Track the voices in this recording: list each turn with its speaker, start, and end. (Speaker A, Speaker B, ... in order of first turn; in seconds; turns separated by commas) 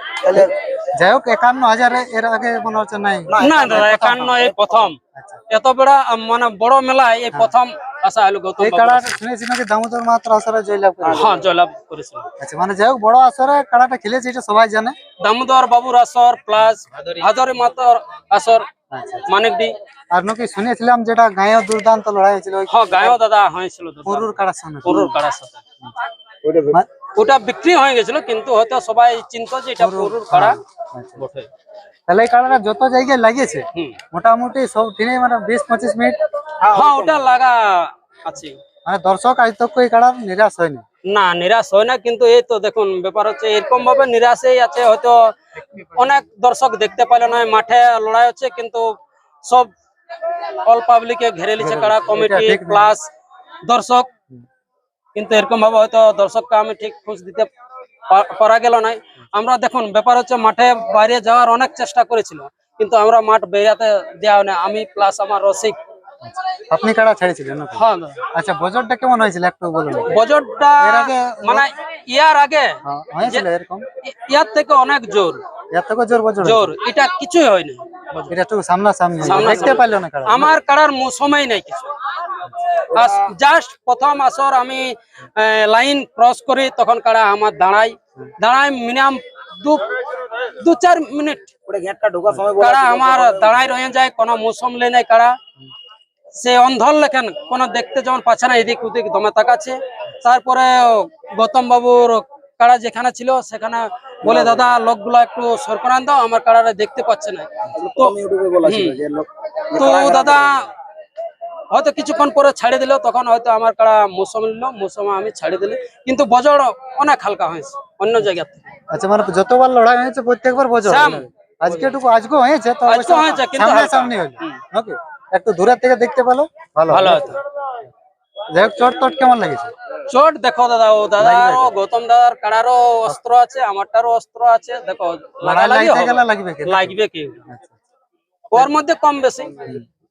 Speaker A: 0.2-0.5, Speaker B: 0.4-4.2, Speaker A: 3.3-4.9, Speaker C: 3.4-5.0, Speaker B: 5.2-5.4, Speaker C: 5.5-9.2, Speaker B: 8.6-11.3, Speaker A: 11.0-11.4, Speaker C: 11.1-12.3, Speaker B: 12.4-15.0, Speaker C: 15.2-18.7, Speaker B: 18.9-19.3, Speaker C: 19.3-19.7, Speaker B: 20.1-23.2, Speaker C: 22.7-24.3, Speaker B: 24.1-25.1, Speaker C: 24.8-25.6, Speaker A: 26.4-26.8, Speaker C: 27.2-30.6, Speaker B: 29.8-31.2, Speaker C: 31.2-31.5, Speaker B: 32.1-36.2, Speaker A: 36.6-37.4, Speaker C: 36.7-38.6, Speaker B: 38.9-40.8, Speaker C: 41.1-48.9, Speaker C: 49.4-49.7, Speaker C: 50.6-53.1, Speaker B: 51.6-53.0, Speaker C: 53.7-54.1, Speaker C: 55.1-57.5, Speaker C: 58.1-65.8, Speaker B: 66.2-70.1, Speaker C: 67.8-68.2, Speaker C: 70.1-73.5, Speaker B: 70.8-71.7, Speaker B: 72.8-73.8, Speaker C: 74.0-75.4, Speaker B: 75.7-76.7, Speaker C: 76.4-78.3, Speaker B: 78.3-80.5, Speaker C: 79.2-81.9, Speaker C: 82.7-91.5, Speaker A: 91.7-93.7, Speaker C: 92.6-95.4, Speaker C: 96.4-108.2, Speaker A: 104.2-104.8, Speaker A: 107.7-110.7, Speaker C: 108.7-109.0, Speaker C: 109.8-110.7, Speaker C: 111.7-118.6, Speaker B: 118.9-127.3, Speaker C: 120.8-122.0, Speaker C: 122.9-124.6, Speaker C: 126.9-127.4, Speaker B: 128.5-129.7, Speaker C: 130.1-137.5, Speaker B: 131.2-131.7, Speaker B: 135.4-137.0, Speaker B: 137.5-137.8, Speaker C: 138.5-139.8